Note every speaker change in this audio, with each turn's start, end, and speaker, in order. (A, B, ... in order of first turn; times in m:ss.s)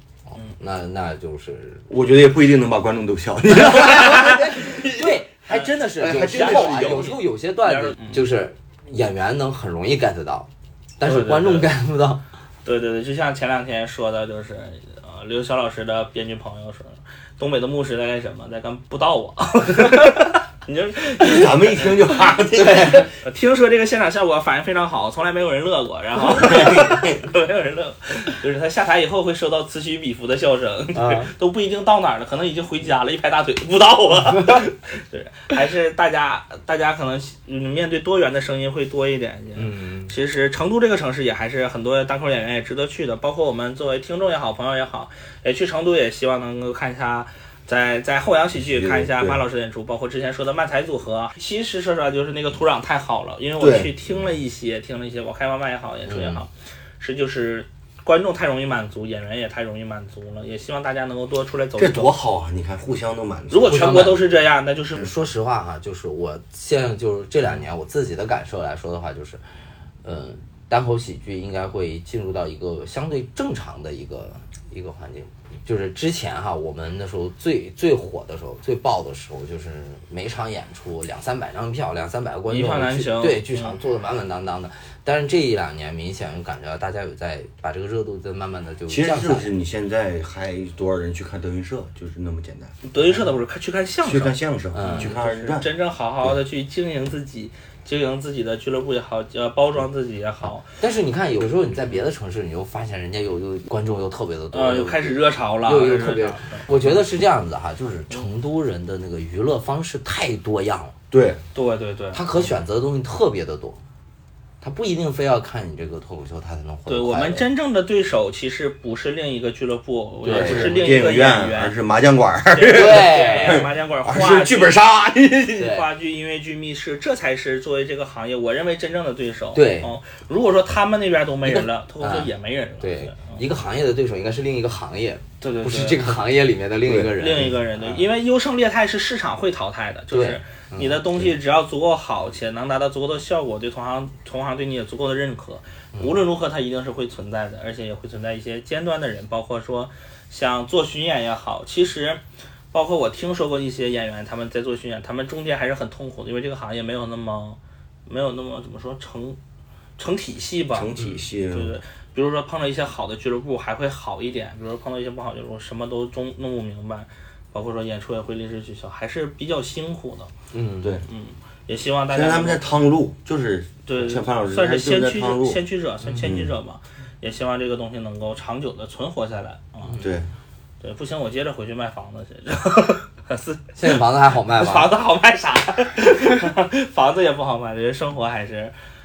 0:00.3-0:01.9 A
0:01.9-0:05.2 B
0:03.6-0:12.2 A
0:06.0-0:07.2 B
0:06.2-0:08.3 C
0:11.0-0:11.7 C
0:12.6-1:02.1 C
0:21.1-0:23.1 B
0:22.6-0:23.0 A
0:26.4-0:27.0 B
0:31.0-0:31.3 A
0:39.6-0:40.1 A
0:48.6-0:49.4 B
0:53.6-0:53.9 B
0:56.1-0:56.4 A
1:01.8-1:04.1 B
1:03.5-1:05.1 C
1:03.7-1:04.2 A
1:05.0-1:09.4 A
1:10.0-1:29.5 A
1:22.5-1:23.8 C
1:28.9-1:32.8 B
1:32.8-1:40.7 C
1:34.0-1:35.7 B
1:34.7-1:35.1 A
1:40.7-1:51.0 A
1:44.5-1:47.0 C
1:51.1-1:51.4 B
1:51.5-1:52.2 C
1:52.1-1:53.8 A
1:54.6-1:57.4 A
1:56.9-2:01.8 C
2:00.2-2:00.9 A
2:00.3-2:05.6 B
2:02.5-2:04.8 C
2:02.7-2:03.6 A
2:05.6-2:13.4 C
2:05.6-2:05.9 A
2:09.5-2:09.9 A
2:11.4-2:18.1 A
2:15.4-2:16.1 C
2:16.8-2:17.1 B
2:17.1-2:32.2 C
2:20.1-2:21.3 A
2:32.7-2:39.4 C
2:40.0-2:50.3 C
2:40.7-2:41.8 B
2:50.5-2:51.0 A
2:51.1-2:52.7 C
2:52.1-2:55.6 B
2:53.9-3:00.0 C
2:56.2-2:56.5 B
3:00.0-3:00.3 B
3:00.8-3:08.8 C
3:03.8-3:04.9 A